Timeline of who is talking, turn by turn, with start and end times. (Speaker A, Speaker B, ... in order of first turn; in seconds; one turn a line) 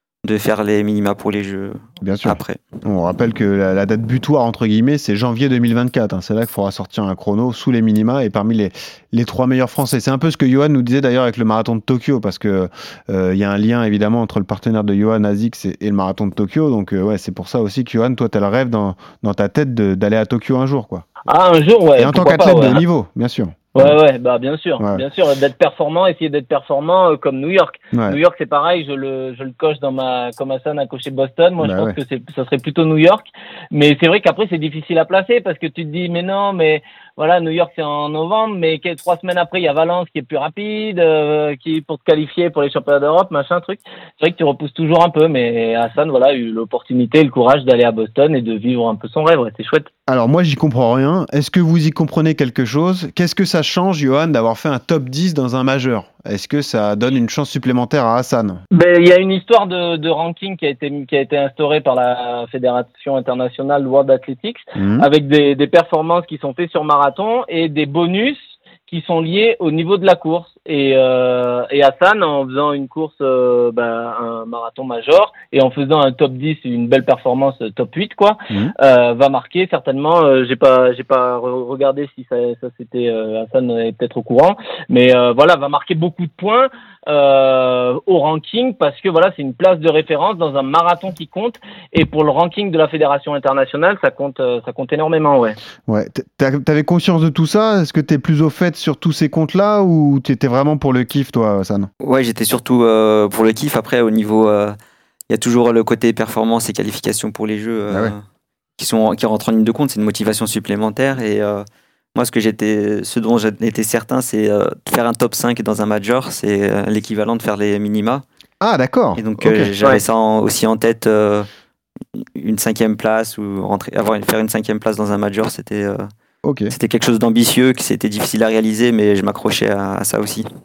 Speaker A: 0.2-2.6
Speaker B: 2.0-21.1
Speaker C: 21.3-22.8
Speaker B: 22.0-23.9
Speaker C: 23.7-49.9
Speaker B: 27.9-28.2
Speaker B: 31.6-32.0
Speaker B: 50.1-58.6
Speaker C: 58.7-95.6
Speaker B: 64.7-65.1
Speaker B: 95.9-101.9
Speaker A: 102.0-104.8
Speaker A: 105.3-108.2
Speaker A: 108.8-118.2
Speaker B: 118.6-119.7
Speaker A: 119.2-121.5
Speaker A: 122.1-126.1
Speaker B: 126.4-126.7
Speaker A: 126.7-130.5